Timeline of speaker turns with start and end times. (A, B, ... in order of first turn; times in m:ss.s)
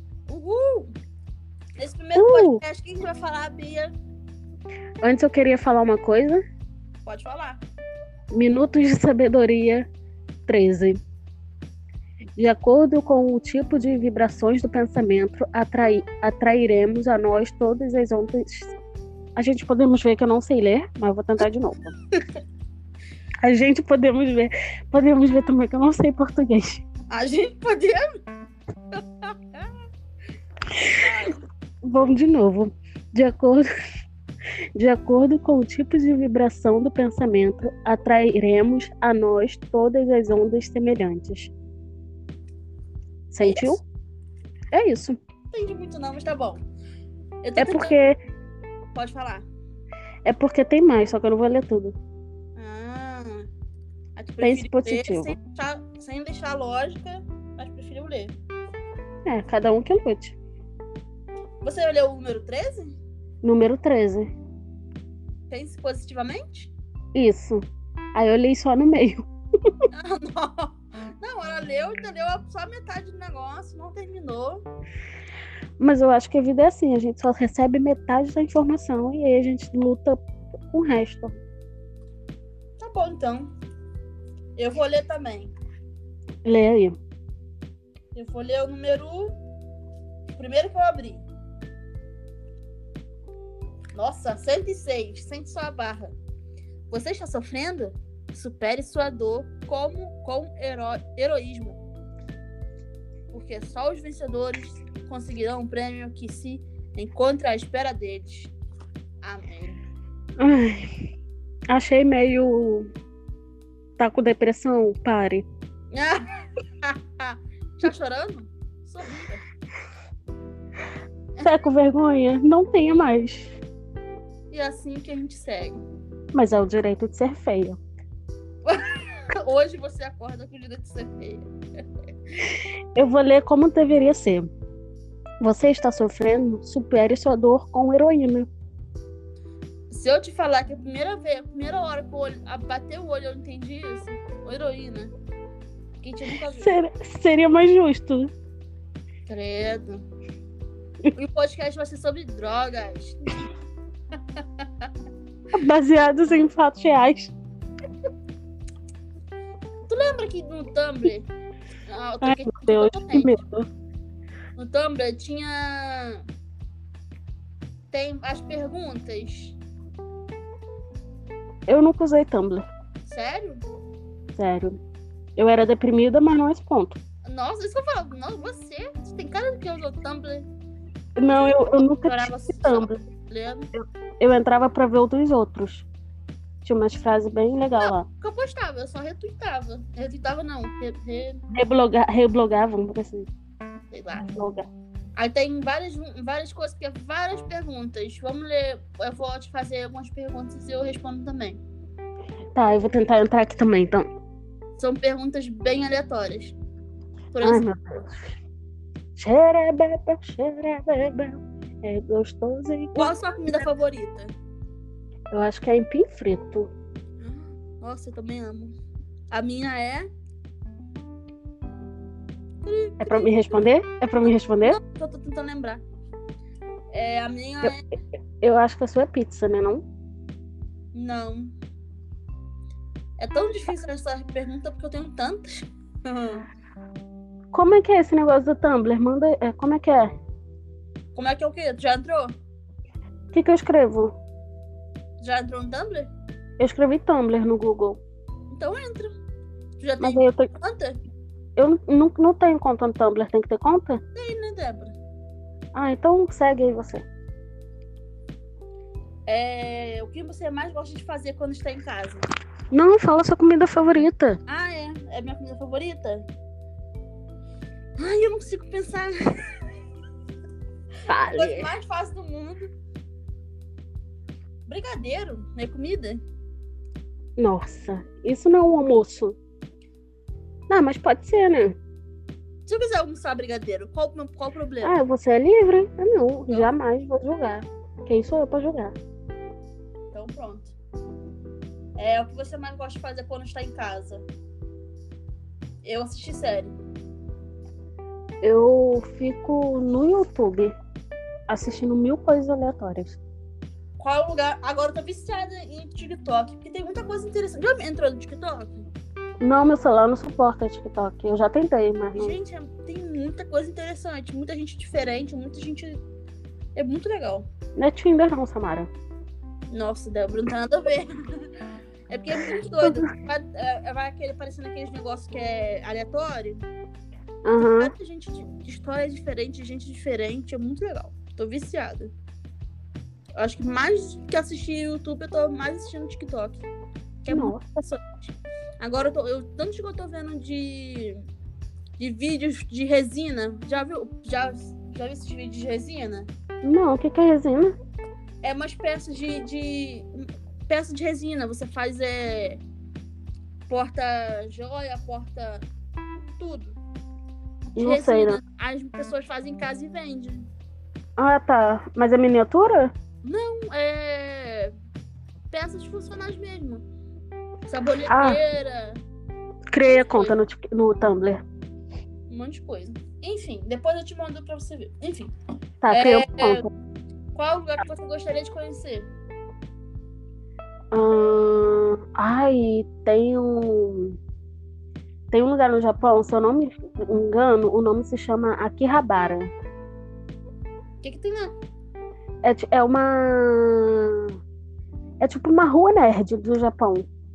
0:00.3-0:00.9 A
0:01.8-0:03.9 A
0:02.2-0:02.6 B
0:05.0-0:06.4 B
0:07.1-0:07.6 A
0:08.3-0:09.9 B
0:10.5-0:11.0 B
0:12.4-0:18.8 B
0:19.4-0:22.0 B
0:23.4-0:26.8 B
0:27.1-0:28.0 A
0:29.0-0:29.7 A
0:31.0-0:31.4 A
0:31.8-0:33.6 B
0:34.8-0:41.5 B
0:43.3-0:43.8 B
0:43.4-0:43.8 A
0:44.7-0:45.2 B
0:45.5-0:46.6 A
0:47.4-0:48.0 A
0:47.6-0:48.2 B
0:49.0-0:49.5 A
0:50.2-0:52.0 B
0:52.6-0:53.5 A
0:54.2-0:58.4 A
0:54.4-0:55.4 B
0:59.3-1:00.4 B
1:01.6-1:03.0 A
1:03.4-1:04.3 B
1:05.5-1:06.7 A
1:07.2-1:07.6 B
1:08.2-1:09.7 B
1:09.9-1:14.6 A
1:15.8-1:21.4 B
1:22.8-1:23.5 A
1:24.6-1:25.5 A
1:26.4-1:27.0 B
1:28.2-1:29.3 A
1:30.3-1:31.2 A
1:33.9-1:36.1 A
1:36.9-1:41.8 A
1:43.3-1:48.5 A
1:49.2-1:49.8 A
1:50.4-1:50.9 B
1:51.7-1:52.9 B
1:54.0-1:55.5 B
1:55.9-1:56.2 A
1:56.8-1:59.4 A
2:01.4-2:03.6 B
2:04.5-2:05.8 A
2:06.3-2:07.8 B
2:08.6-2:11.5 A
2:13.0-2:14.5 B
2:15.4-2:18.5 B
2:19.9-2:25.1 A
2:26.0-2:26.7 A
2:26.5-2:28.3 B
2:29.3-2:30.0 A
2:31.1-2:33.3 A
2:35.5-2:37.3 B
2:39.9-2:41.3 A
2:41.9-2:43.4 A
2:42.2-2:43.7 B
2:44.6-2:46.2 A
2:47.9-2:49.6 A
2:51.7-2:52.7 B
2:53.0-2:53.6 A
2:54.4-2:54.8 B
2:55.4-2:57.0 B
2:57.2-3:00.5 A
3:01.2-3:03.0 B
3:01.3-3:03.7 A
3:03.8-3:05.9 B
3:06.6-3:08.1 B
3:07.8-3:11.4 A
3:11.5-3:13.3 B
3:13.9-3:14.3 A
3:14.2-3:14.7 B
3:15.2-3:21.6 A
3:22.6-3:24.1 B
3:24.8-3:26.6 A
3:27.3-3:27.6 A
3:27.4-3:28.4 B
3:29.2-3:33.2 B
3:33.0-3:34.3 A
3:35.3-3:36.7 B
3:37.2-3:38.8 A
3:39.3-3:40.1 A
3:42.6-3:43.7 A
3:43.0-3:44.8 B
3:44.6-3:45.8 A
3:46.9-3:47.9 A
3:48.4-3:49.8 B
3:50.9-3:51.5 A
3:53.2-3:56.4 A
3:57.5-4:00.1 B
4:01.2-4:02.3 A
4:03.3-4:04.1 B
4:05.2-4:06.1 A
4:06.6-4:08.0 B
4:08.5-4:09.1 A
4:09.8-4:11.0 A
4:10.0-4:10.5 B
4:11.6-4:14.0 B
4:14.2-4:15.0 A
4:15.7-4:17.0 B
4:19.3-4:22.3 A
4:22.7-4:24.4 B
4:24.5-4:26.2 A
4:28.0-4:29.4 A
4:31.1-4:31.7 B
4:31.4-4:32.7 A
4:34.7-4:36.2 A
4:37.4-4:39.4 B
4:40.7-4:41.8 B
4:42.7-4:45.0 A
4:44.8-4:49.0 B
4:50.1-4:50.7 A
4:52.0-4:54.2 A
4:55.8-4:56.8 A
4:58.4-5:00.7 B
5:01.5-5:03.2 B
5:04.0-5:08.8 A
5:09.4-5:12.3 B
5:12.2-5:16.0 A
5:16.8-5:17.5 A
5:17.8-5:18.9 B
5:19.7-5:21.1 A
5:22.1-5:26.6 A
5:22.8-5:23.1 B
5:27.4-5:27.9 B
5:27.6-5:32.1 A
5:33.4-5:36.7 A
5:37.2-5:41.2 A
5:37.3-5:37.8 B
5:42.0-5:46.3 A
5:46.6-5:47.8 B
5:48.4-5:52.6 A
5:53.7-5:55.7 A
5:56.4-5:56.8 A
5:57.8-5:58.4 B
5:57.8-6:00.5 A
6:01.2-6:02.9 B
6:03.2-6:04.7 A
6:05.5-6:06.8 A
6:07.7-6:09.0 A
6:08.1-6:08.4 B
6:09.7-6:11.4 B
6:09.9-6:10.4 A
6:12.3-6:15.3 A
6:15.8-6:16.7 B
6:15.9-6:16.6 A
6:17.3-6:19.1 A
6:20.9-6:24.2 B
6:25.3-6:29.5 B
6:31.0-6:31.5 A
6:32.4-6:34.4 B
6:35.2-6:37.1 B